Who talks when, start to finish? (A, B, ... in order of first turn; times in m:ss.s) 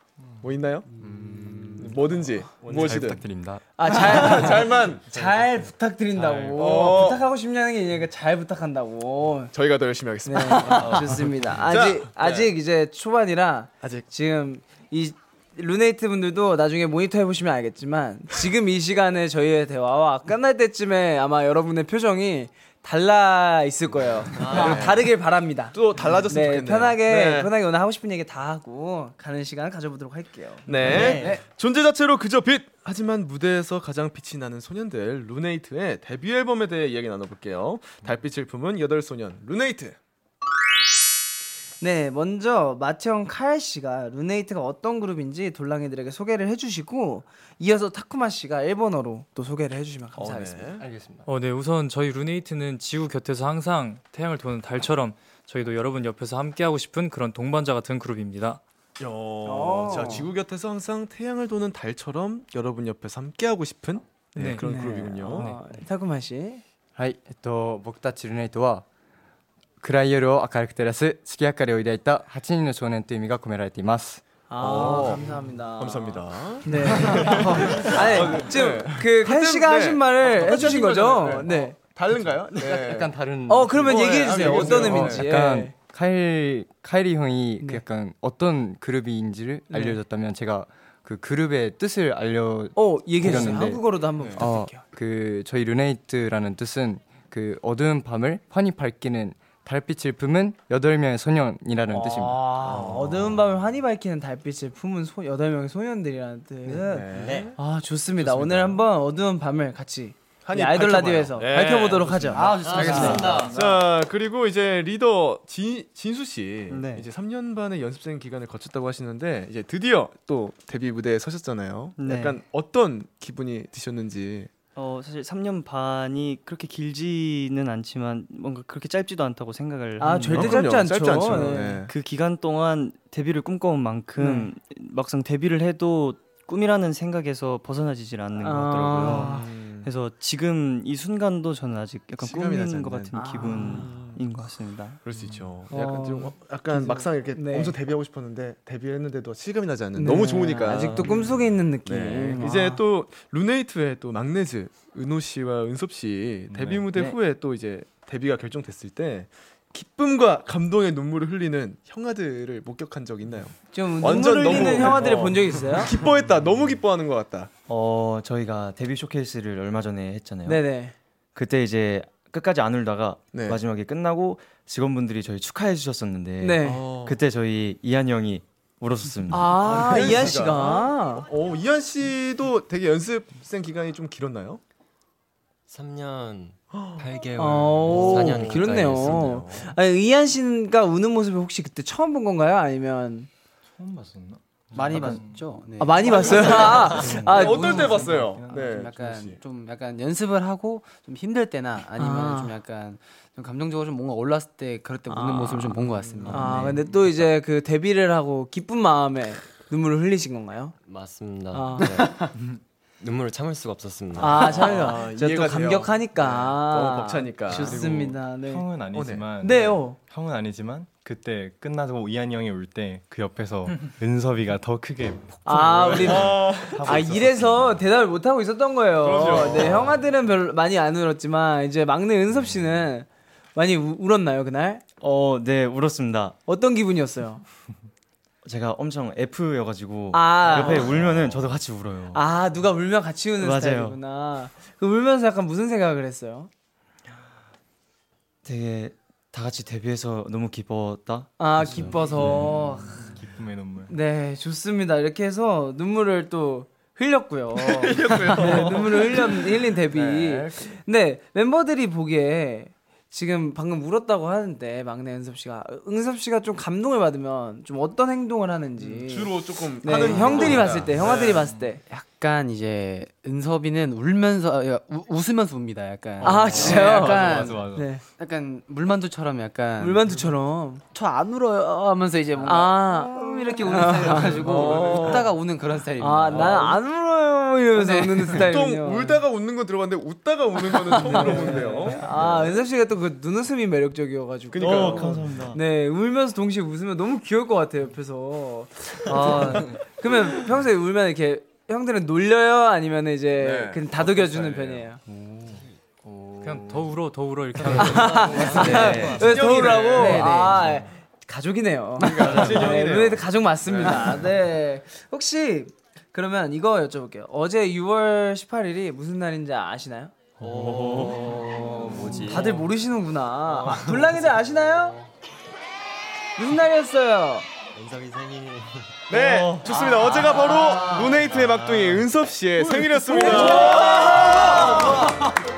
0:00.4-0:00.9 A
0:01.1-0:01.8 B
0:01.4-0:01.7 C
0:01.8-0:03.2 A
0:02.7-0:03.6 B
0:03.8-0:09.5 D
0:03.9-0:05.2 A
0:06.5-0:07.2 A
0:09.5-0:12.5 A
0:10.2-0:25.8 D
0:13.8-0:14.0 A
0:24.4-0:25.1 A
0:24.5-0:24.8 C
0:25.7-0:27.5 A
0:26.3-0:30.7 D
0:30.7-0:40.0 A
0:30.9-0:31.4 E
0:30.9-0:31.3 F
0:41.8-0:50.8 D
0:50.2-0:50.8 A
0:50.8-0:51.3 B
0:51.2-0:58.6 G
0:59.0-1:05.5 A
0:59.4-1:00.3 D
1:04.6-1:06.6 D
1:07.0-1:08.8 B
1:09.8-1:14.2 B
1:14.5-1:21.8 D
1:14.6-1:23.1 A
1:17.2-1:17.8 B
1:22.5-1:42.5 B
1:23.5-1:25.7 D
1:23.8-1:25.3 A
1:27.6-1:27.8 D
1:29.7-1:30.0 D
1:32.8-1:34.8 D
1:41.9-1:53.4 D
1:42.6-1:43.4 A
1:46.8-1:47.6 A
1:47.1-1:47.5 C
1:48.2-1:48.8 A
1:50.4-2:04.5 A
1:52.3-1:53.4 E
1:52.6-1:53.6 C
1:56.7-1:57.1 H
2:02.0-2:02.4 H
2:04.8-2:10.6 H
2:10.0-2:11.8 D
2:10.3-2:11.9 A
2:11.2-2:25.0 H
2:14.2-2:14.5 D
2:18.4-2:19.5 D
2:19.0-2:19.9 A
2:22.2-2:24.2 A
2:23.1-2:24.0 D
2:25.0-2:31.2 A
2:25.7-2:27.8 D
2:30.0-2:32.8 D
2:31.8-2:47.5 A
2:36.5-2:36.8 I
2:43.7-2:45.9 D
2:47.7-2:50.6 F
2:50.4-2:50.9 D
2:51.4-3:00.1 F
2:53.3-2:53.6 A
2:56.4-2:56.8 D
2:56.6-2:57.2 A
2:59.3-3:01.3 D
2:59.5-3:04.6 A
3:05.7-3:09.4 C
3:06.7-3:07.0 A
3:07.0-3:07.8 F
3:07.4-3:13.3 D
3:07.9-3:09.8 A
3:13.8-3:15.4 B
3:14.7-3:27.3 E
3:15.8-3:18.1 D
3:16.0-3:19.4 A
3:18.3-3:18.7 B
3:22.0-3:22.6 D
3:25.1-3:30.7 D
3:30.9-3:32.3 C
3:31.5-3:32.0 D
3:33.0-3:34.7 C
3:34.2-3:38.7 D
3:34.4-3:37.9 A
3:37.8-3:38.1 I
3:38.4-3:41.8 B
3:38.9-3:39.3 A
3:38.9-3:46.0 I
3:39.4-3:40.0 D
3:42.4-3:45.0 B
3:45.4-3:54.8 D
3:45.6-3:47.7 B
3:45.9-3:47.2 A
3:49.0-3:49.9 A
3:55.0-3:56.4 F
3:56.4-3:57.4 D
3:58.4-4:02.2 F
4:00.1-4:01.0 D
4:00.9-4:01.4 I
4:02.1-4:06.5 D
4:03.4-4:04.0 F
4:08.4-4:12.2 F
4:11.4-4:13.2 D
4:11.8-4:12.4 I
4:13.0-4:13.9 I
4:13.8-4:31.8 D
4:17.5-4:20.6 A
4:28.8-4:31.5 A
4:30.2-4:30.6 E
4:31.4-4:31.7 I
4:31.7-4:40.2 E
4:36.2-4:37.8 I
4:36.2-4:38.0 D
4:39.8-4:40.8 D
4:40.9-4:46.8 E
4:42.4-4:45.2 D
4:44.4-4:45.4 A
4:46.0-4:49.2 D
4:46.4-4:46.8 A
4:47.7-4:48.5 E
4:48.3-4:52.6 A
4:50.6-5:05.0 D
4:51.3-4:51.7 E
4:54.5-4:55.2 A
4:54.6-4:55.6 F
5:03.4-5:04.9 A
5:06.1-5:06.8 B
5:06.4-5:09.2 G
5:07.6-5:07.9 F
5:07.8-5:20.1 D
5:08.6-5:10.7 F
5:09.2-5:10.3 A
5:12.0-5:14.3 A
5:20.4-5:22.5 F
5:20.4-5:21.3 B
5:21.8-5:22.4 I
5:22.1-5:25.0 D
5:23.4-5:23.9 F
5:26.4-5:27.5 D
5:27.8-5:28.7 C
5:29.1-5:35.2 A
5:29.1-5:31.9 F
5:33.0-5:35.1 D